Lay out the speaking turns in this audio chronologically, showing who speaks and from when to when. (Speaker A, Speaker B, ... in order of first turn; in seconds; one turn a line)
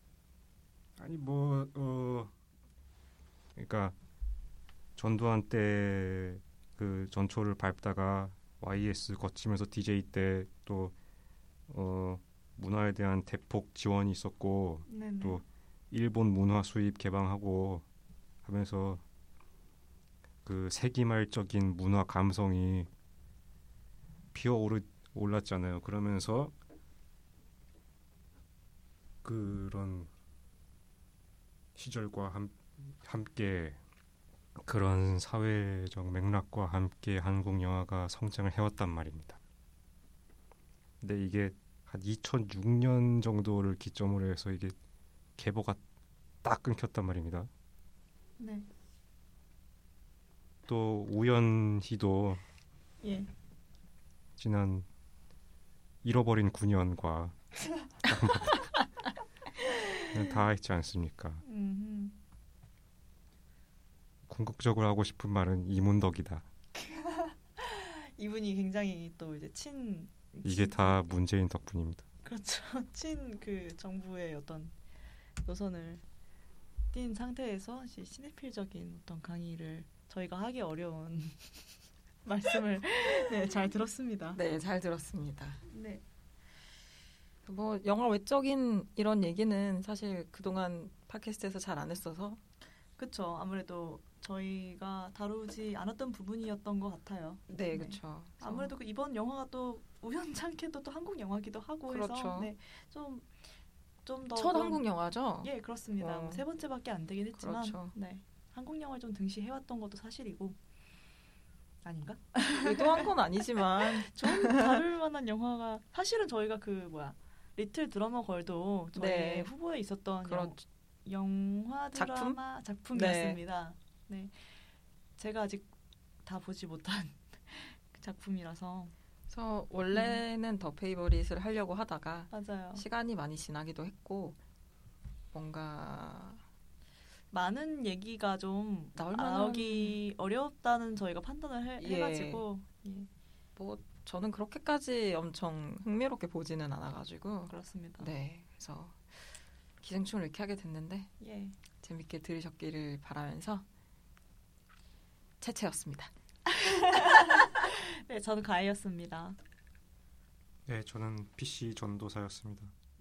Speaker A: 1.0-2.3
Speaker A: 3.5-4.0
Speaker A: 5.0-10.9
Speaker A: 11.7-17.8
Speaker B: 14.9-15.4
Speaker A: 18.4-19.0
Speaker A: 20.4-22.9
Speaker A: 24.3-26.5
Speaker A: 29.2-30.1
Speaker A: 31.7-33.8
Speaker A: 34.5-39.4
Speaker A: 41.0-44.8
Speaker A: 45.4-45.8
Speaker A: 46.4-47.5
Speaker B: 48.4-48.6
Speaker A: 50.7-52.4
Speaker B: 53.0-53.3
Speaker A: 54.4-54.9
Speaker A: 56.0-57.4
Speaker A: 58.0-58.7
Speaker A: 60.1-61.4
Speaker B: 61.4-62.1
Speaker A: 64.3-66.5
Speaker B: 66.7-71.0
Speaker A: 70.4-72.0
Speaker B: 72.2-74.7
Speaker B: 75.4-76.0
Speaker B: 76.9-81.5
Speaker B: 82.2-84.4
Speaker C: 84.3-85.6
Speaker B: 85.7-86.0
Speaker C: 87.5-92.4
Speaker B: 93.0-103.4
Speaker C: 97.5-98.7
Speaker C: 101.9-102.5
Speaker B: 104.0-104.8
Speaker C: 104.3-106.4
Speaker B: 105.4-110.6
Speaker C: 107.4-107.9
Speaker B: 111.8-124.5
Speaker C: 112.6-114.8
Speaker C: 119.0-119.5
Speaker C: 120.2-120.6
Speaker C: 121.9-122.4
Speaker C: 122.9-123.4
Speaker B: 125.2-125.7
Speaker B: 126.2-128.9
Speaker C: 129.3-134.4
Speaker B: 129.9-130.2
Speaker B: 132.3-132.8
Speaker C: 135.3-136.4
Speaker B: 137.3-143.1
Speaker C: 138.9-140.0
Speaker C: 141.8-142.4
Speaker C: 143.6-151.1
Speaker B: 147.5-148.1
Speaker B: 151.2-151.6
Speaker C: 151.8-153.6
Speaker C: 155.4-156.1
Speaker B: 156.5-159.4
Speaker A: 160.7-162.7